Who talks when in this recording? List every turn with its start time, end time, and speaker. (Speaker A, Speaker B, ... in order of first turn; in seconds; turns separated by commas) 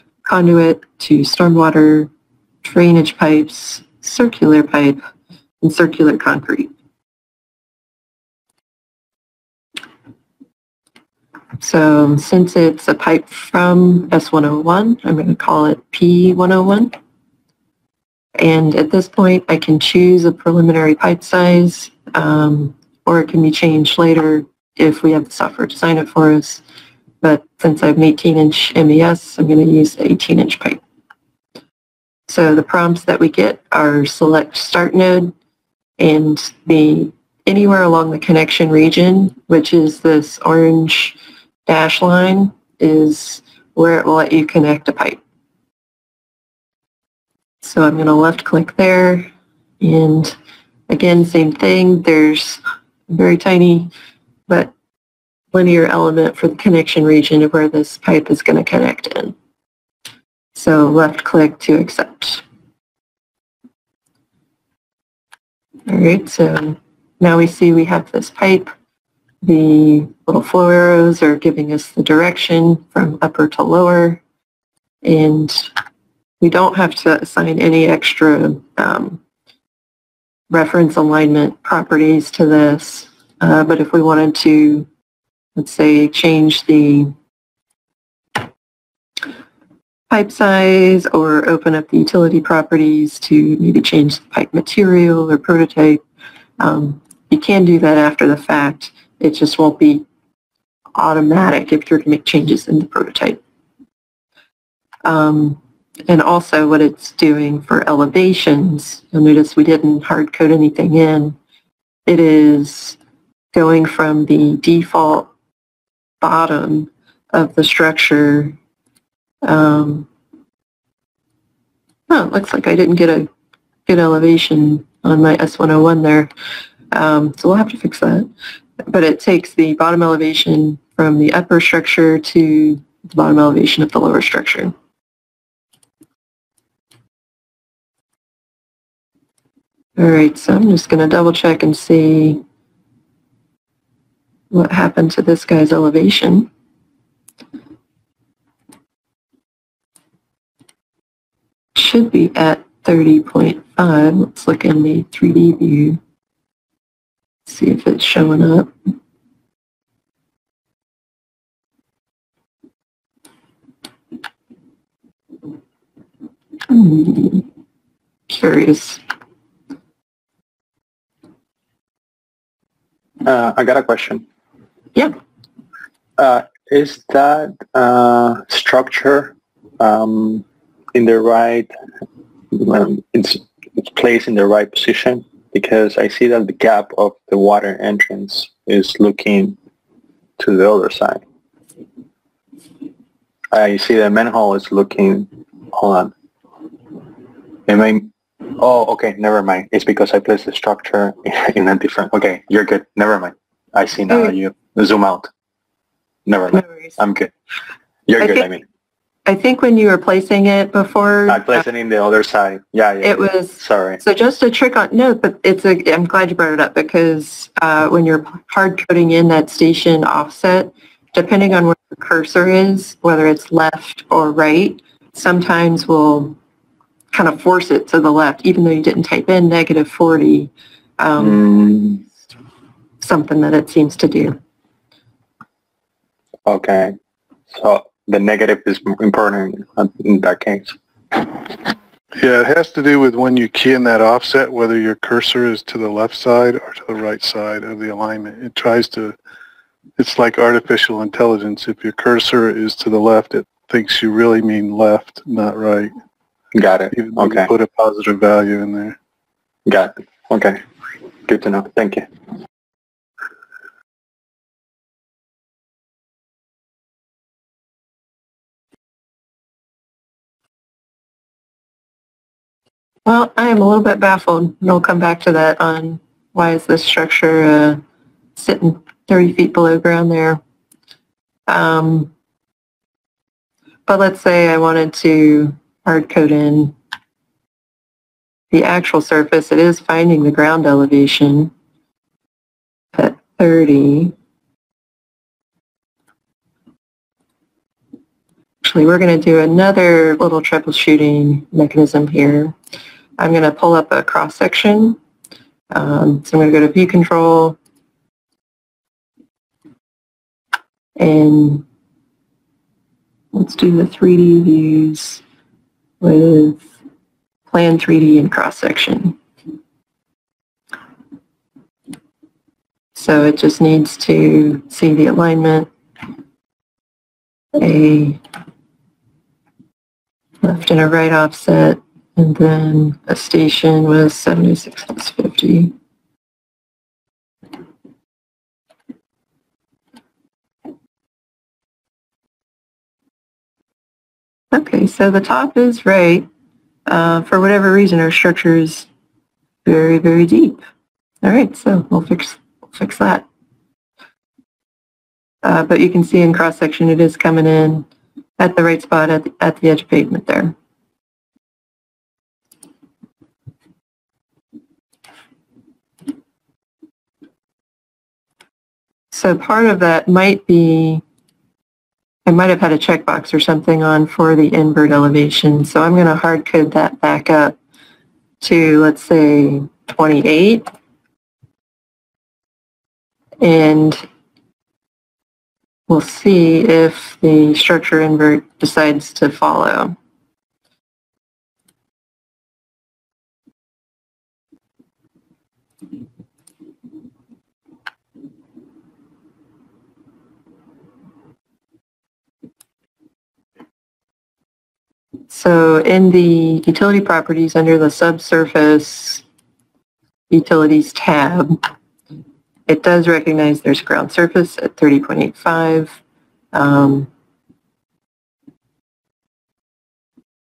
Speaker A: 0.2-2.1, Speaker A: 2.6-5.0, Speaker A: 5.6-6.7, Speaker A: 11.6-16.9, Speaker A: 18.4-26.6, Speaker A: 27.2-30.8, Speaker A: 32.3-35.3, Speaker A: 36.0-45.2, Speaker A: 47.6-49.3, Speaker A: 49.8-50.4, Speaker A: 50.9-53.9, Speaker A: 55.5-59.4, Speaker A: 60.5-62.4, Speaker A: 65.9-68.7, Speaker A: 69.4-74.2, Speaker A: 75.0-75.7, Speaker A: 76.4-79.2, Speaker A: 80.5-84.9, Speaker A: 85.6-87.1, Speaker A: 90.1-96.0, Speaker A: 96.6-100.0, Speaker A: 101.0-103.4, Speaker A: 105.0-111.4, Speaker A: 112.1-113.0, Speaker A: 113.5-115.3, Speaker A: 116.2-118.6, Speaker A: 119.4-120.1, Speaker A: 122.1-123.3, Speaker A: 123.9-126.3, Speaker A: 126.9-128.3, Speaker A: 128.9-134.7, Speaker A: 140.0-142.4, Speaker A: 144.5-146.5, Speaker A: 151.8-156.0, Speaker A: 157.5-158.7, Speaker A: 166.7-167.5, Speaker A: 168.3-169.0, Speaker B: 173.2-174.2, Speaker B: 176.2-181.7, Speaker B: 182.5-189.6, Speaker B: 190.4-191.2, Speaker B: 193.5-196.1, Speaker B: 197.7-205.3, Speaker A: 204.1-204.3, Speaker B: 206.3-207.3, Speaker A: 206.5-206.9, Speaker B: 208.1-208.6, Speaker A: 208.2-208.5, Speaker A: 209.3-211.6, Speaker B: 211.3-214.0, Speaker A: 213.0-226.4, Speaker A: 227.1-231.4, Speaker B: 231.2-232.0, Speaker A: 233.0-234.4, Speaker B: 236.5-237.0, Speaker B: 237.5-241.5, Speaker C: 242.1-249.2, Speaker C: 250.0-255.9, Speaker B: 256.5-257.5, Speaker C: 256.9-259.0, Speaker B: 259.7-260.6, Speaker B: 261.3-262.1, Speaker A: 273.1-277.8, Speaker A: 278.4-280.4, Speaker A: 281.5-282.1, Speaker A: 283.9-286.8, Speaker A: 288.5-291.5, Speaker A: 292.9-294.1, Speaker A: 298.6-302.6, Speaker A: 303.2-305.0, Speaker A: 305.7-307.6, Speaker A: 311.0-311.6, Speaker A: 313.3-315.2, Speaker A: 316.0-316.6, Speaker A: 317.5-319.2, Speaker A: 322.9-325.7, Speaker A: 327.6-328.2, Speaker A: 330.4-335.7, Speaker A: 344.5-346.3, Speaker A: 346.9-348.9, Speaker A: 349.6-350.6, Speaker A: 351.2-353.2, Speaker A: 355.4-357.9, Speaker A: 358.4-360.6, Speaker A: 369.1-371.0, Speaker A: 372.3-377.6, Speaker A: 378.4-380.7, Speaker A: 383.4-384.1, Speaker A: 385.9-390.0, Speaker A: 405.3-409.2, Speaker A: 410.3-411.6, Speaker A: 412.7-416.0, Speaker A: 416.5-417.1